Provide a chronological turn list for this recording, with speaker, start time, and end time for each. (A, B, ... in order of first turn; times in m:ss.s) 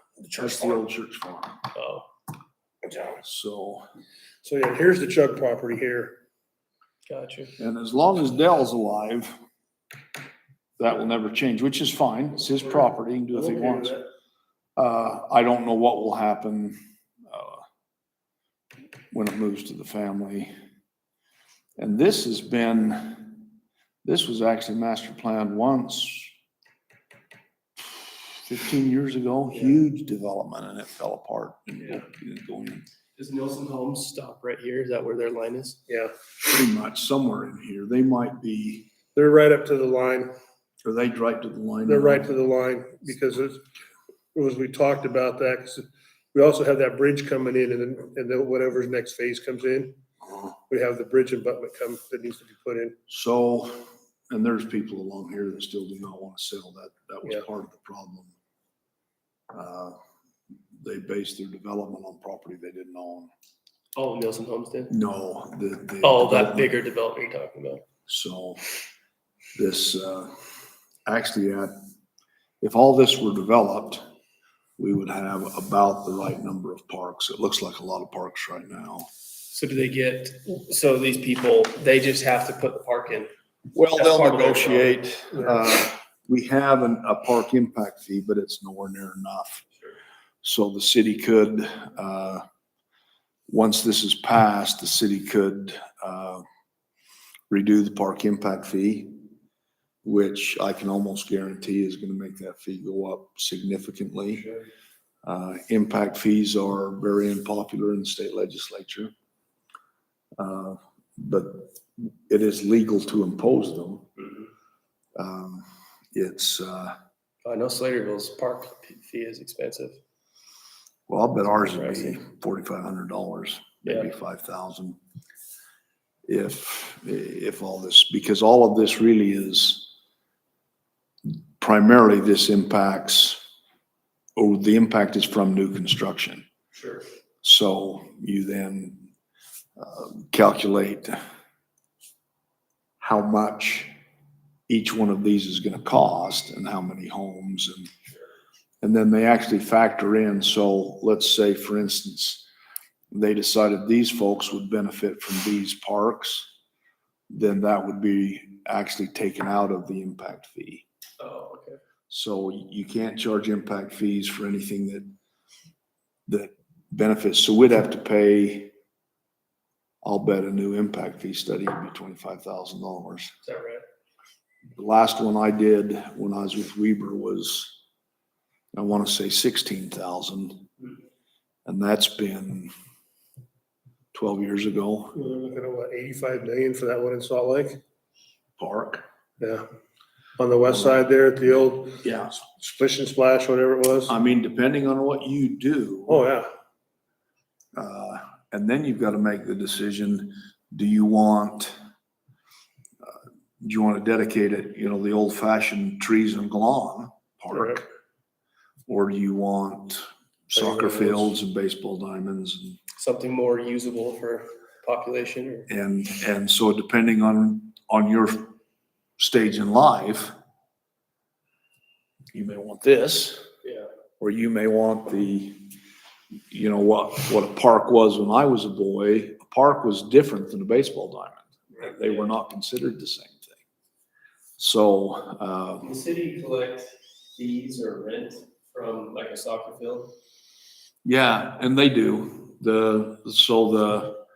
0:00.2-0:00.8 A
0:00.4-0:01.6 B
0:01.7-0:02.1 C
0:02.9-0:03.2 A
0:03.2-0:03.9 B
0:04.4-0:06.2 A
0:07.1-0:07.5 C
0:07.6-0:09.4 B
0:10.8-0:14.0 B
0:13.3-0:14.0 C
0:14.8-0:16.8 B
0:17.3-0:17.6 B
0:19.1-0:20.5 B
0:21.8-0:23.5 B
0:24.0-0:26.3 B
0:28.4-0:32.9 B
0:29.5-0:29.8 C
0:31.8-0:32.0 C
0:33.2-0:35.8 C
0:35.9-0:36.1 A
0:36.4-0:38.9 B
0:39.1-0:40.4 A
0:40.8-0:42.4 B
0:41.8-0:43.6 A
0:44.4-0:50.0 A
0:50.7-0:53.0 A
0:53.1-0:58.3 B
0:59.5-1:00.0 B
1:00.8-1:03.3 B
1:04.0-1:04.9 C
1:04.9-1:06.8 B
1:06.0-1:07.9 C
1:08.1-1:08.6 B
1:09.6-1:10.3 B
1:11.1-1:11.7 B
1:12.6-1:14.0 B
1:14.8-1:19.1 B
1:19.5-1:23.3 C
1:23.7-1:29.6 B
1:23.9-1:25.1 C
1:30.4-1:32.4 B
1:33.5-1:36.4 B
1:37.5-1:39.1 B
1:40.0-1:44.5 B
1:45.2-1:49.1 B
1:50.4-1:54.1 B
1:55.2-1:57.0 B
1:57.4-2:00.0 C
2:01.1-2:05.0 B
2:01.4-2:02.2 C
2:03.8-2:04.1 C
2:06.3-2:09.9 B
2:11.3-2:13.4 B
2:14.4-2:16.4 B
2:16.7-2:17.1 C
2:17.4-2:19.0 B
2:19.8-2:21.2 B
2:23.0-2:23.9 B
2:24.7-2:27.9 B
2:28.8-2:32.5 B
2:33.1-2:36.5 B
2:37.3-2:40.8 B
2:41.2-2:41.8 C
2:42.1-2:45.0 B
2:46.3-2:48.7 B
2:50.0-2:53.3 B
2:53.4-2:53.8 C
2:54.8-2:57.7 B
2:58.7-3:00.7 B
3:01.7-3:02.7 B
3:04.1-3:05.2 B
3:05.2-3:07.8 A
3:08.6-3:09.0 B
3:09.4-3:09.6 A
3:10.4-3:14.2 A
3:12.0-3:12.4 B
3:14.1-3:16.3 B
3:16.1-3:16.5 A
3:17.8-3:21.7 B
3:23.6-3:27.9 B
3:27.5-3:27.8 A
3:28.9-3:32.8 B
3:30.5-3:31.4 C
3:33.0-3:35.7 C
3:35.7-3:38.5 B
3:39.2-3:40.3 B
3:42.3-3:43.5 B
3:43.6-3:43.9 C
3:44.2-3:45.7 B
3:46.5-3:53.6 B
3:51.7-3:52.4 C
3:54.6-3:55.9 B
3:55.8-4:00.1 C
4:01.0-4:04.2 B